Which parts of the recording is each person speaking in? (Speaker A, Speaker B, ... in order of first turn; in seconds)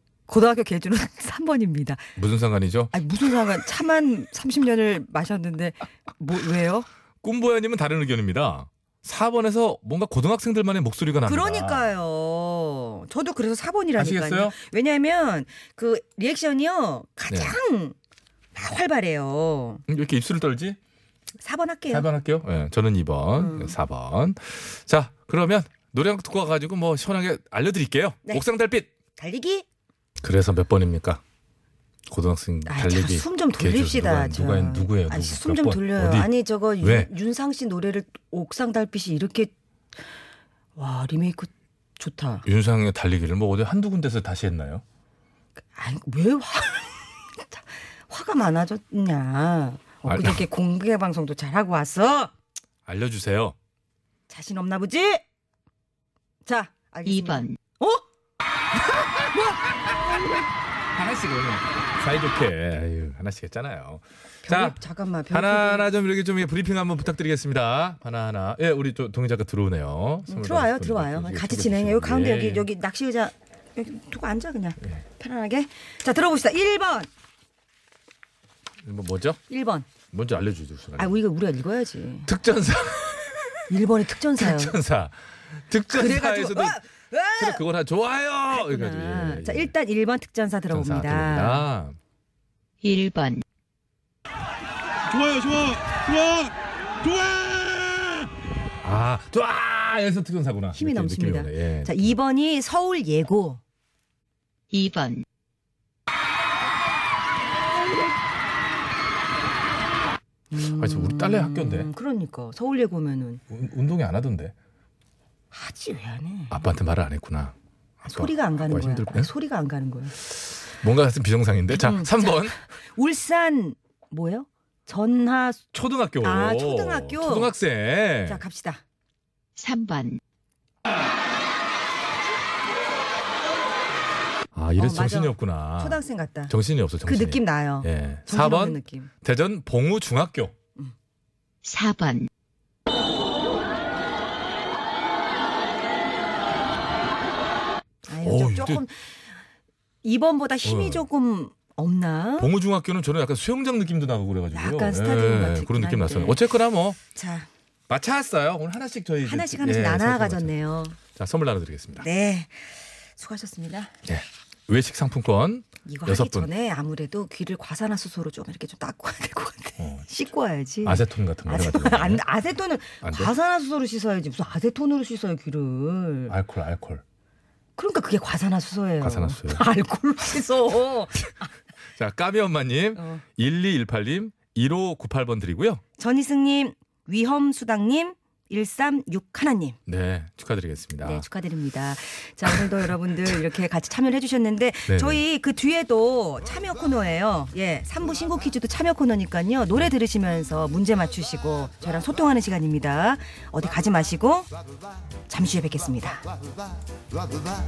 Speaker A: 0.3-2.1, 2.9-6.9, 11.2-17.9, 18.5-19.8, 21.4-22.1, 23.4-23.8, 29.1-29.6, 32.6-39.5, 40.8-42.4, 45.7-52.3, 54.3-55.2, 56.5-58.0, 59.0-59.6, 64.4-65.9, 70.3-77.1, 79.5-79.9, 81.0-82.3, 83.7-84.8, 85.9-87.6, 88.5-91.7, 100.7-103.6, 110.5-113.4, 115.5-116.6, 118.0-120.2, 121.7-125.6, 126.2-127.5, 128.2-128.8, 134.8-136.5, 137.0-139.1, 148.1-149.3, 150.0-152.5, 154.5-156.4, 157.1-157.5, 159.2-161.0, 162.0-163.9, 165.8-176.3, 177.8-181.5, 182.9-183.2, 186.0-189.8, 191.0-204.5, 205.3-206.3
Speaker B: 2.1-2.9, 7.2-11.9, 14.0-14.5, 17.3-17.6, 19.9-20.8, 21.9-28.9, 30.2-31.2, 32.1-36.3, 36.8-37.1, 42.4-44.8, 50.0-50.4, 52.9-53.5, 59.9-60.4, 60.9-64.8, 65.3-72.7, 78.8-79.4, 80.1-81.2, 82.2-83.7, 84.3-86.8, 87.3-89.7, 90.7-92.0, 97.8-98.3, 98.8-102.1, 110.7-111.9, 113.5-114.5, 116.5-117.5, 118.1-119.3, 120.7-122.5, 125.7-128.4, 134.5-140.5, 148.2-148.8, 150.6-151.1, 152.4-157.0, 157.9-160.6, 161.1-162.1, 164.1-166.5, 169.8-170.1, 170.8-172.2, 173.0-173.3, 176.3-177.0, 179.0-179.6, 181.9-185.8, 189.9-191.2, 194.9-195.2
Speaker C: 57.0-57.6, 92.8-93.4, 104.7-105.2, 129.6-130.2, 141.6-142.3
Speaker D: 95.1-96.5, 97.0-97.5